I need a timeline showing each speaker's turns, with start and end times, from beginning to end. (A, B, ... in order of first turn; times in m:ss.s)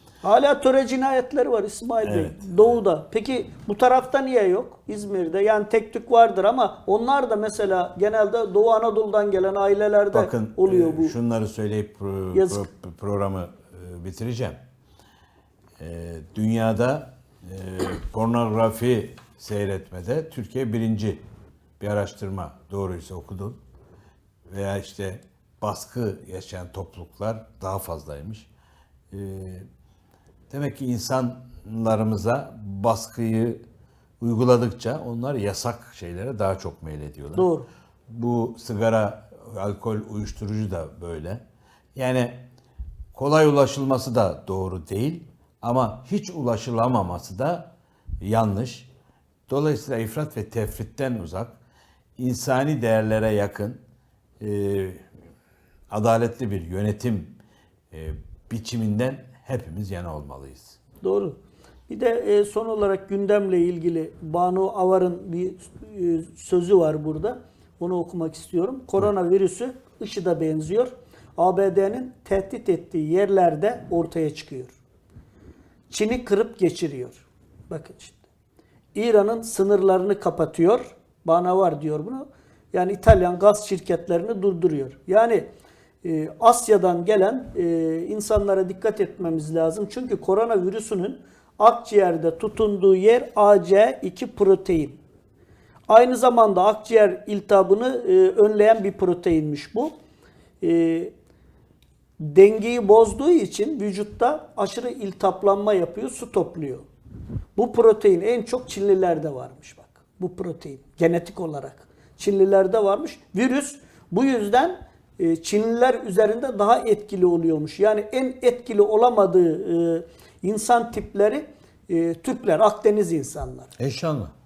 0:00.2-0:11.1 A
0:02.0-0:02.7 B
0:10.1-0:14.6 B
0:12.3-0:12.6 A
0:15.8-0:21.2 B
0:21.8-0:23.6 B
0:24.5-0:28.5 B
0:29.1-0:29.6 B
0:30.5-0:33.6 B
0:34.2-0:37.5 B
0:37.3-0:37.6 A
0:38.1-0:41.4 B
0:42.0-0:42.4 B
0:43.1-0:47.7 B
0:48.2-0:48.9 B
0:49.5-0:51.6 B
0:52.2-0:53.8 B
0:54.4-0:55.0 B
0:55.9-0:57.4 B
0:57.9-1:00.8 B
1:01.0-1:01.4 A
1:01.9-1:14.7 A
1:15.9-1:18.2 A
1:18.9-1:25.5 A
1:26.0-1:35.0 A
1:35.9-1:39.9 A
1:40.6-1:41.1 A
1:42.2-1:46.8 A
1:47.6-2:03.7 A
2:03.8-2:04.3 B